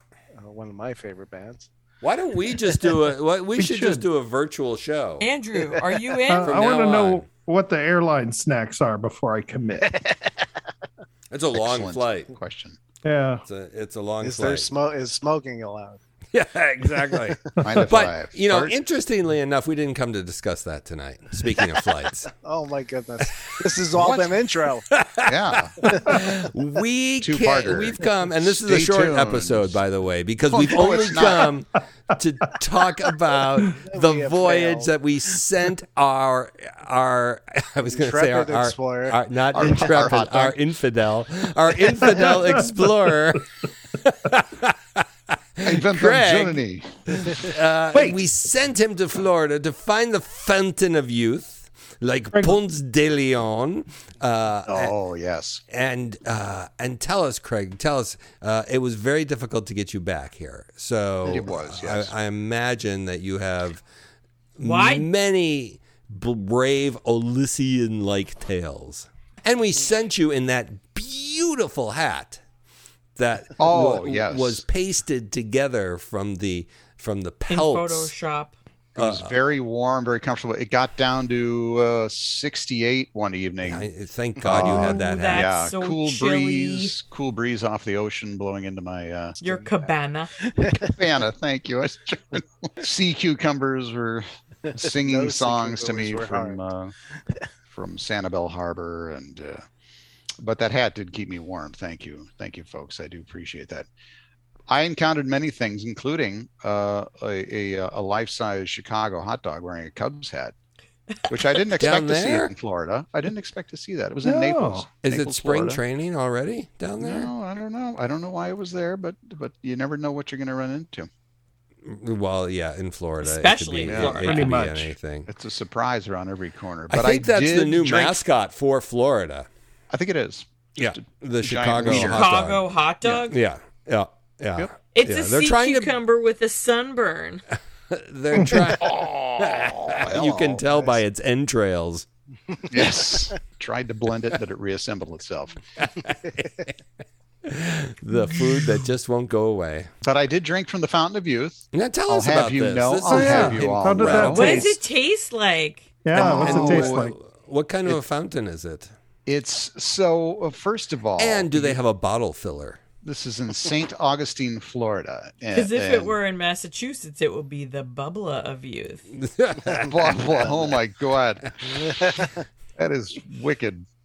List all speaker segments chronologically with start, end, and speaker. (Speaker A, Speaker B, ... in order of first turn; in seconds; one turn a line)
Speaker A: 0.3-1.7
Speaker B: 2.0-5.3
Speaker C: 3.6-4.0
Speaker D: 5.2-6.6
Speaker C: 6.3-9.9
Speaker B: 6.4-7.3
Speaker A: 9.9-10.3
Speaker B: 11.3-12.3
Speaker E: 11.6-12.8
Speaker C: 13.0-13.4
Speaker B: 13.5-14.7
Speaker A: 14.2-16.0
Speaker B: 16.3-22.3
Speaker E: 17.6-18.8
Speaker A: 22.3-24.9
Speaker E: 24.0-24.3
Speaker B: 24.9-45.0
Speaker E: 25.2-25.8
Speaker A: 25.9-26.2
Speaker E: 27.2-29.8
Speaker E: 30.5-31.5
Speaker A: 33.8-34.9
Speaker A: 37.9-39.9
Speaker E: 39.5-40.6
Speaker B: 45.6-46.6
Speaker E: 45.6-46.9
Speaker B: 47.2-54.9
Speaker C: 47.9-48.3
Speaker E: 54.7-55.6
Speaker B: 55.7-63.8
Speaker E: 61.2-62.1
Speaker B: 64.6-72.4
Speaker D: 64.6-65.1
Speaker B: 73.2-78.1
Speaker E: 73.6-74.6
Speaker D: 77.5-78.5
Speaker E: 79.0-83.9
Speaker B: 79.0-79.3
Speaker B: 83.6-85.5
Speaker E: 84.4-89.4
Speaker D: 84.6-86.9
Speaker D: 89.4-90.3
Speaker A: 90.5-90.9
Speaker E: 90.7-96.9
Speaker A: 94.8-96.6
Speaker E: 97.7-99.6
Speaker E: 100.4-103.9
Speaker E: 104.7-110.5
Speaker E: 111.3-115.8
Speaker B: 111.8-112.5
Speaker C: 114.2-114.9
Speaker B: 115.0-117.3
Speaker E: 117.0-121.1
Speaker B: 121.8-125.3
Speaker D: 123.2-124.5
Speaker E: 123.9-124.3
Speaker C: 124.2-124.9
Speaker E: 125.3-128.2
Speaker B: 126.9-129.5
Speaker E: 129.9-132.3
Speaker B: 130.8-132.7
Speaker D: 131.9-133.4
Speaker B: 133.3-135.9
Speaker D: 134.9-137.4
Speaker B: 137.9-142.1
Speaker E: 138.5-141.0
Speaker E: 142.7-145.6
Speaker B: 145.8-146.7
Speaker B: 147.4-149.9
Speaker E: 150.0-154.6
Speaker B: 151.7-154.7
Speaker C: 153.1-154.8
Speaker D: 154.3-156.2
Speaker C: 156.0-157.1
Speaker E: 156.2-157.0
Speaker B: 156.2-158.9
Speaker E: 159.3-161.8
Speaker B: 161.2-162.8
Speaker E: 163.0-166.2
Speaker D: 165.5-169.1
Speaker B: 169.1-170.3
Speaker E: 169.8-171.9
Speaker A: 171.7-172.4
Speaker E: 172.8-173.9